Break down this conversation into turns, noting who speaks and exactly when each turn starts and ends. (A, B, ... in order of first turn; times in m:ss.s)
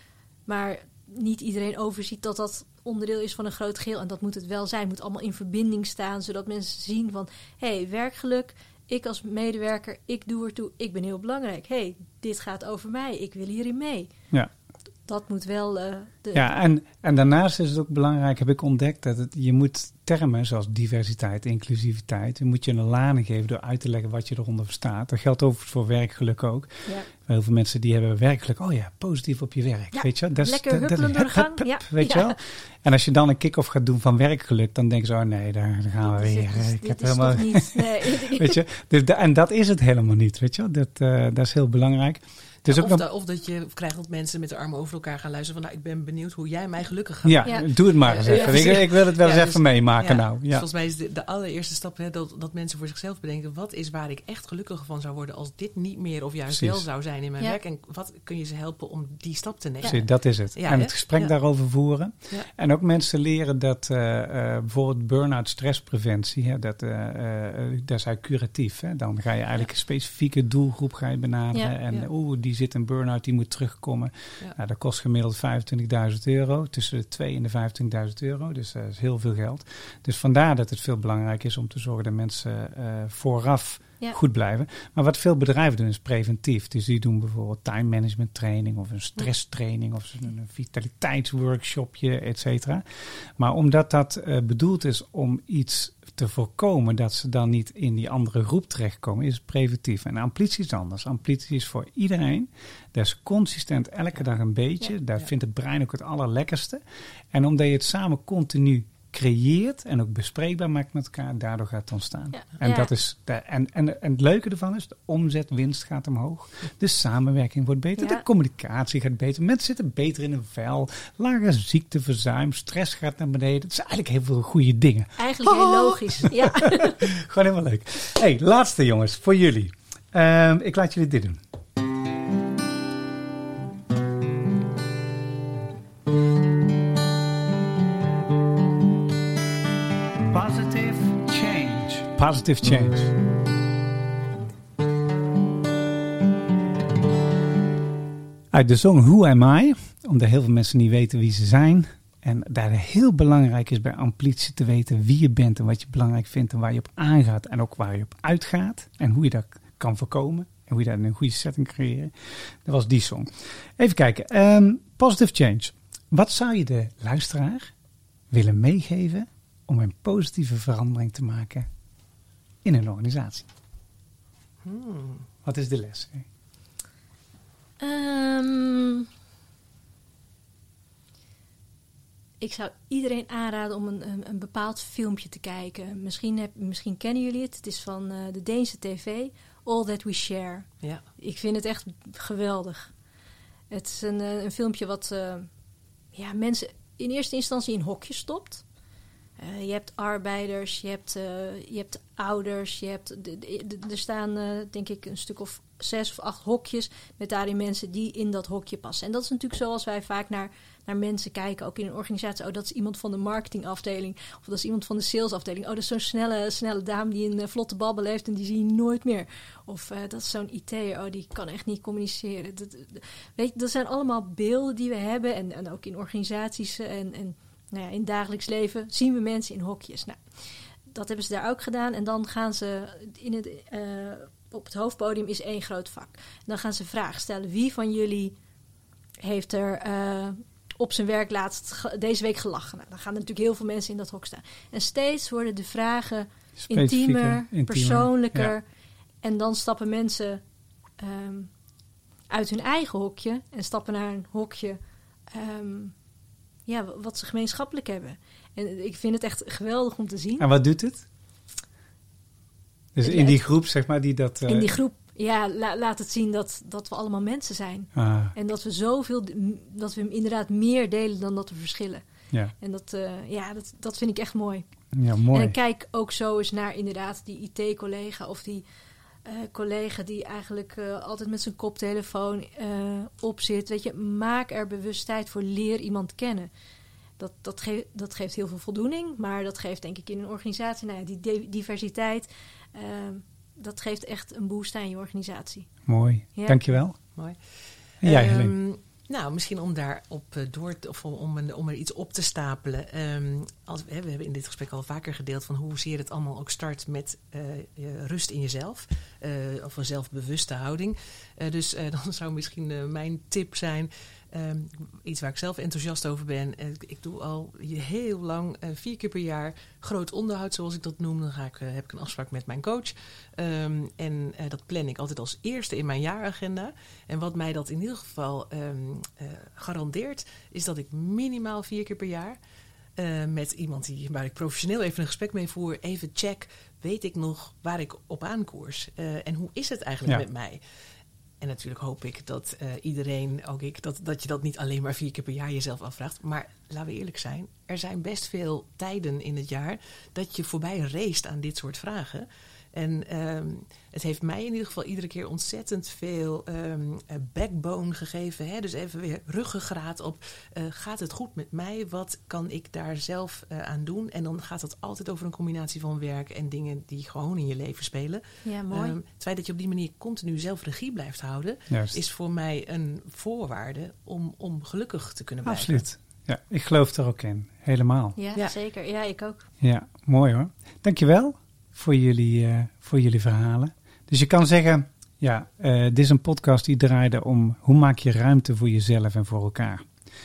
0:00.5-0:14.1 A
0:15.1-0:16.5 A
0:16.3-0:43.0 B
0:29.9-0:32.4 A
0:36.0-0:38.6 A
0:42.6-1:01.3 C
0:47.2-0:50.7 B
0:56.5-0:56.8 B
0:59.8-1:32.8 B
1:33.4-1:46.8 B
1:47.3-2:11.4 B
1:52.3-1:52.9 A
1:58.0-1:58.2 A
2:05.2-2:07.1 A
2:20.3-2:23.2 B
2:28.5-2:42.1 B
2:42.6-2:47.7 B
2:48.3-2:51.7 B
2:52.6-2:53.5 B
2:54.6-2:55.3 C
2:55.4-2:56.3 B
2:57.8-2:59.1 A
3:02.4-3:10.7 A
3:11.2-3:12.9 A
3:13.7-3:15.5 A
3:16.1-3:18.6 A
3:19.4-3:50.2 A
3:50.9-3:58.4 A
3:59.2-4:08.6 A
4:06.6-4:08.6 B
4:09.2-4:10.4 A
4:11.0-4:11.5 A
4:12.3-4:14.8 A
4:15.3-4:15.9 A
4:16.7-4:20.5 A
4:20.4-4:21.1 B
4:23.0-4:24.7 B
4:23.0-4:23.4 A
4:24.5-4:32.0 A
4:28.0-4:28.3 B
4:32.6-4:34.6 A
4:34.9-4:35.6 B
4:35.3-4:38.6 A
4:39.2-4:46.5 A
4:47.2-4:55.7 A
4:55.9-4:57.0 B
4:56.4-4:56.6 A
4:58.0-5:32.4 C
4:58.0-4:58.6 B
5:33.0-5:40.6 C
5:41.4-6:15.8 C
6:08.4-6:09.0 A
6:11.7-6:12.0 B
6:15.4-6:18.2 B
6:18.2-6:19.5 A
6:19.6-6:29.9 B